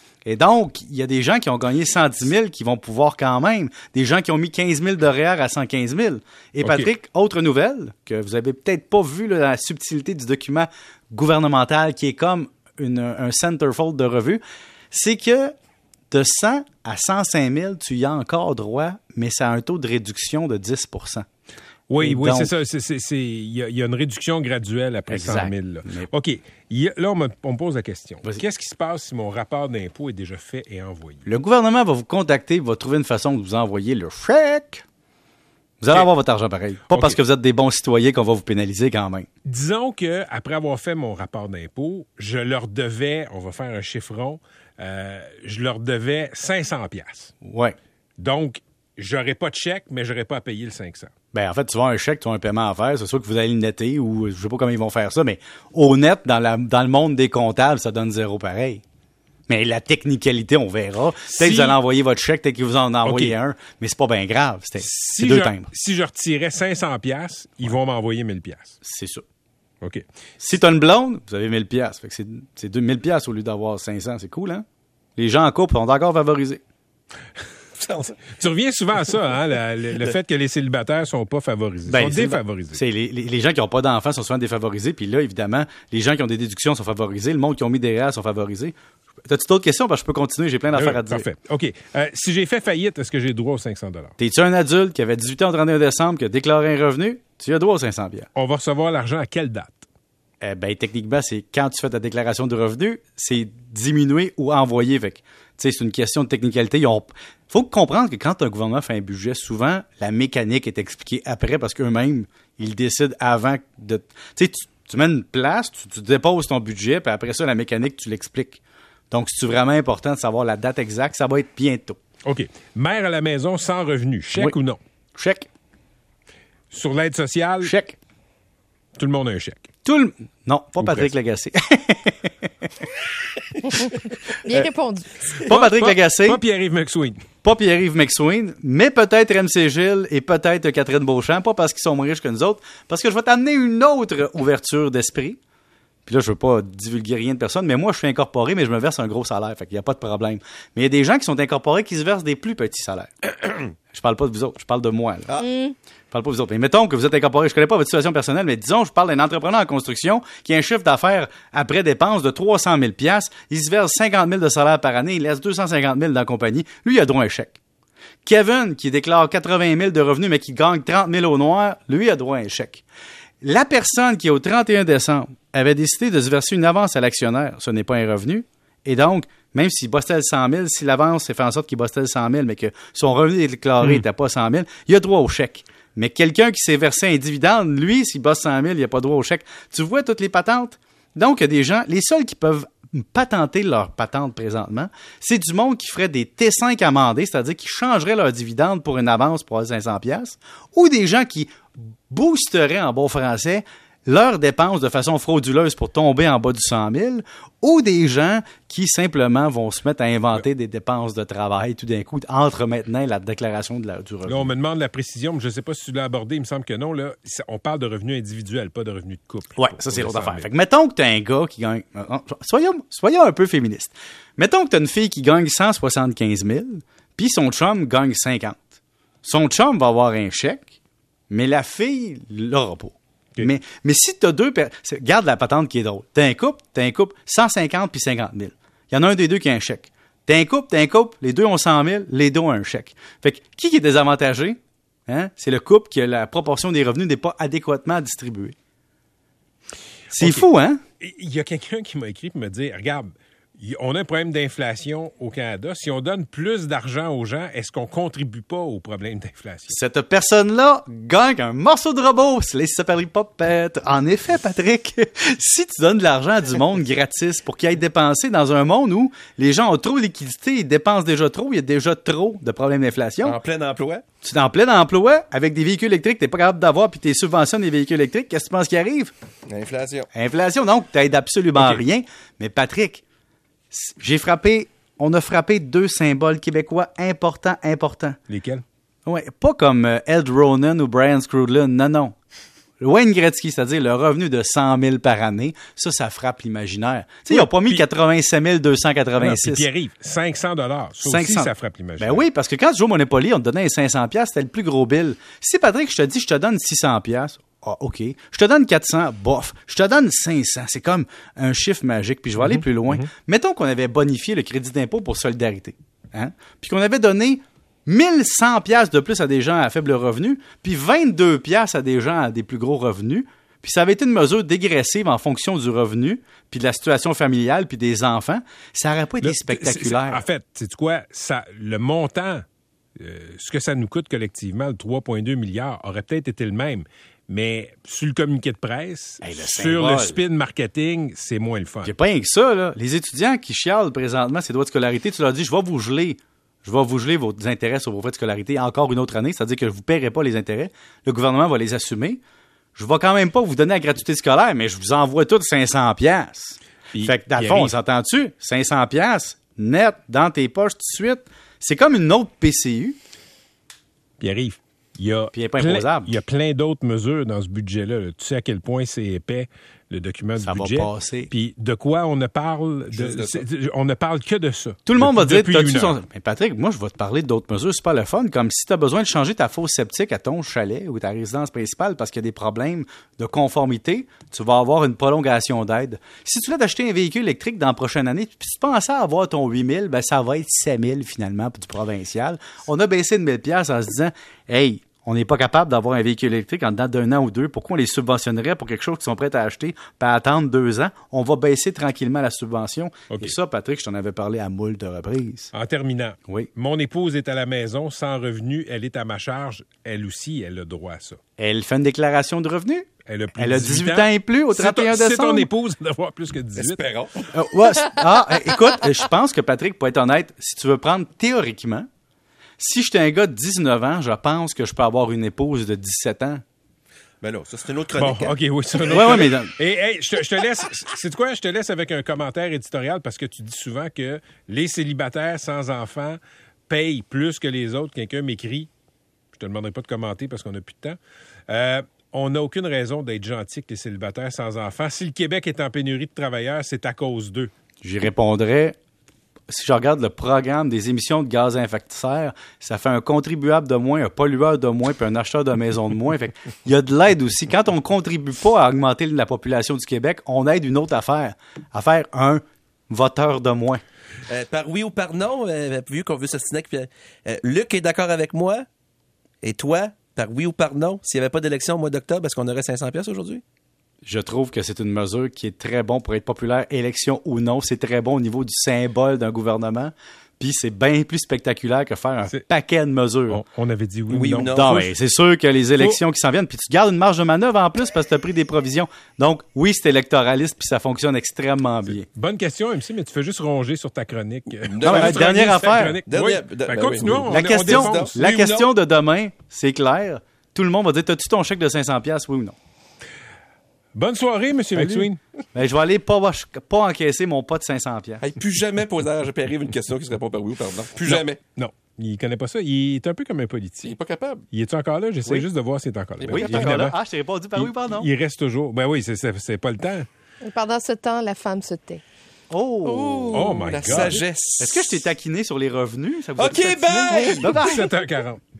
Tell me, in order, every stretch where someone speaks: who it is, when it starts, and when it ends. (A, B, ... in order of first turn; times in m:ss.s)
0:00.2-0:15.5 A
0:06.6-0:06.9 B
0:16.1-0:21.2 A
0:21.9-0:31.2 B
0:22.0-0:22.5 A
0:25.1-0:26.1 A
0:31.2-0:34.8 A
0:35.8-0:39.3 A
0:36.9-0:37.2 B
0:39.4-0:47.3 B
0:47.4-0:47.8 A
0:48.2-0:51.1 B
0:51.3-0:58.8 A
0:59.5-1:05.6 A
1:01.3-1:01.8 B
1:03.0-1:03.3 B
1:04.8-1:08.7 B
1:08.8-1:09.2 A
1:10.4-1:14.6 A
1:15.2-1:16.6 A
1:17.8-1:18.2 C
1:18.3-1:22.8 B
1:21.9-1:28.7 A
1:29.2-1:31.3 A
1:30.7-1:34.1 B
1:34.2-1:38.3 A
1:38.3-1:39.8 B
1:40.4-2:02.0 A
2:02.2-2:04.8 B
2:05.2-2:05.5 A
2:06.7-2:07.7 B
2:07.6-2:08.0 A
2:09.0-2:09.7 B
2:09.8-2:12.5 A
2:10.8-2:11.1 B
2:13.6-2:13.9 A
2:14.4-2:15.5 D
2:15.4-2:16.4 A
2:15.5-2:17.2 B
2:17.4-2:25.4 A
2:26.0-2:35.4 A
2:35.4-2:35.7 D
2:36.1-2:47.6 A
2:48.2-2:52.8 A
2:53.4-3:34.5 A
3:34.3-3:40.5 B
3:39.5-3:48.7 A
3:49.2-3:50.7 A
3:51.3-4:08.5 A
4:10.1-4:10.8 A
4:10.1-4:10.5 B
4:11.0-4:19.8 B
4:19.7-4:33.4 A
4:33.2-4:34.0 C
4:34.2-4:39.1 A
4:39.5-4:40.1 C
4:40.1-4:43.0 A
4:43.7-4:48.2 A
4:48.3-4:48.6 B
4:49.0-4:52.1 A
4:52.8-4:59.7 A
4:57.3-4:57.8 B
4:59.2-5:02.2 B
5:01.0-5:30.2 A
5:12.4-5:13.0 B
5:29.2-5:32.4 B
5:33.0-5:41.9 B
5:39.2-5:40.2 A
5:41.8-5:52.2 A
5:52.7-6:03.0 A
5:56.9-5:57.7 B
6:04.2-6:16.0 B
6:05.3-6:06.1 A
6:10.4-6:11.3 A
6:13.0-6:13.4 C
6:14.8-6:45.5 A
6:45.5-6:51.2 B
6:51.4-6:55.5 A
6:53.0-6:56.8 B
6:56.6-6:57.3 C
6:57.3-7:01.9 A
7:02.6-7:06.4 A
7:07.2-7:08.4 C
7:08.0-7:18.7 B
7:08.9-7:09.5 A
7:19.3-7:27.5 B
7:27.8-7:28.7 A
7:29.5-7:43.8 A
7:44.3-7:48.7 C
7:49.4-7:53.4 C
7:54.0-8:03.4 A
8:03.3-8:04.9 B
8:04.1-8:04.8 C
8:04.4-8:12.0 A
8:11.9-8:18.6 B
8:14.6-8:15.3 C
8:14.8-8:16.0 A
8:16.0-8:18.6 C
8:17.3-8:22.6 A
8:23.9-8:25.2 B
8:24.8-8:28.2 A
8:28.2-8:31.4 C
8:31.0-8:33.9 B
8:33.8-8:34.4 C
8:34.5-8:37.0 B
8:36.2-8:36.9 C
8:36.3-8:38.1 A
8:37.6-8:40.0 B
8:40.4-8:42.0 D
8:42.5-8:43.3 A
8:42.8-8:43.5 D
8:43.0-8:45.0 C
8:43.3-8:44.2 B
8:43.9-8:47.9 A
8:46.4-8:47.9 C
8:47.1-8:47.4 D
8:47.4-8:48.4 B